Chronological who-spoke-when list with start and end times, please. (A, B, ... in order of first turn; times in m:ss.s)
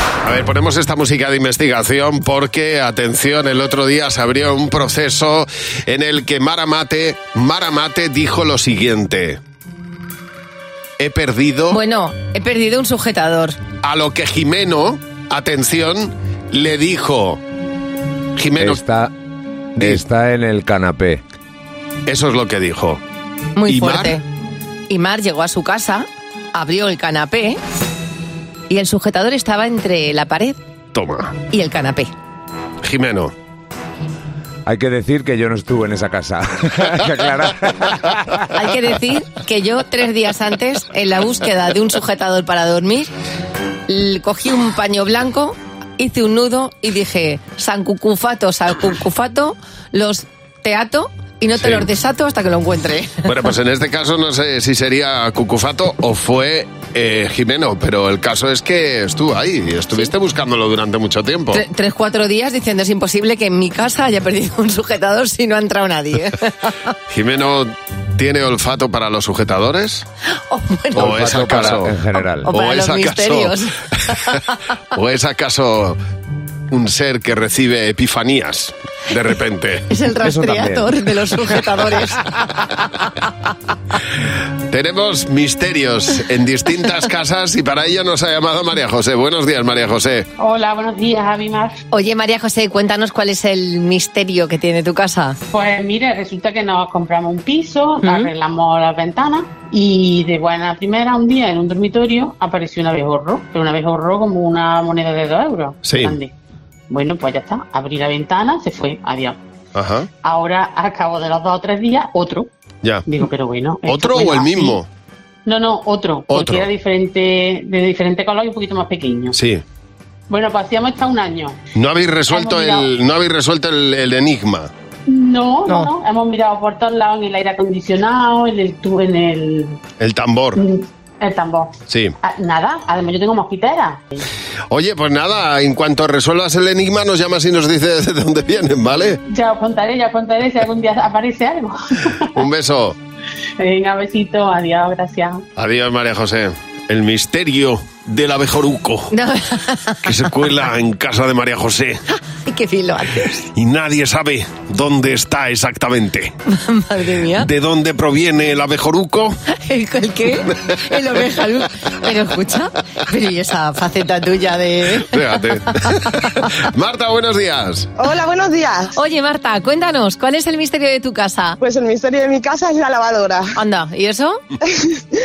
0:00.2-0:09.4 A
0:11.0-0:11.8 A
0:11.7-0:13.6 B
0:13.8-0:17.4 A
0:18.4-0:18.8 A
0:18.6-0:19.1 C
0:19.8-0:21.2 C
0:22.0-0:23.0 A
0:23.6-0:24.2 B
0:23.6-0:24.2 A
0:24.9-0:27.6 B
0:28.7-0:30.6 B
0:30.9-0:31.3 A
0:31.5-0:32.1 B
0:32.8-0:33.3 A
0:34.6-0:38.0 C
0:38.5-0:43.1 B
0:43.9-0:53.1 B
0:51.6-0:51.9 A
0:53.2-1:01.6 A
1:01.5-1:06.7 B
1:07.1-1:10.0 A
1:10.5-1:11.9 B
1:10.9-1:12.5 C
1:11.0-1:12.0 A
1:12.4-1:14.4 B
1:12.5-1:13.6 A
1:14.9-1:16.0 A
1:16.7-1:19.8 A
1:19.9-1:23.3 B
1:20.1-1:21.0 C
1:24.7-1:30.3 A
1:30.4-1:31.8 D
1:31.9-1:35.4 B
1:35.5-1:46.3 D
1:38.0-1:38.3 B
1:45.8-1:46.2 A
1:46.9-1:49.4 D
1:49.7-1:50.1 A
1:50.2-1:52.5 D
1:53.1-1:54.8 D
1:53.8-1:54.8 A
1:55.4-1:59.4 D
1:56.3-1:56.7 A
1:59.3-1:59.6 A
2:00.3-2:01.6 D
2:01.8-2:04.7 A
2:02.3-2:02.9 D
2:05.1-2:09.8 D
2:10.0-2:10.6 A
2:10.6-2:14.2 D
2:11.9-2:12.1 A
2:14.7-2:19.2 A
2:19.3-2:21.8 D
2:22.3-2:23.0 A
2:23.6-2:25.4 D
2:25.6-2:29.1 A
2:29.1-2:30.1 B
2:30.0-2:32.0 A
2:32.4-2:33.4 B
2:33.5-2:36.3 A
2:36.5-2:37.5 B
2:37.3-2:39.4 A
2:39.5-2:45.1 B
2:44.9-2:47.9 A
2:45.8-2:46.5 B
2:48.0-2:48.9 E
2:48.9-2:51.6 B
2:51.6-2:53.5 E
2:53.6-2:54.4 B
2:54.7-2:55.0 E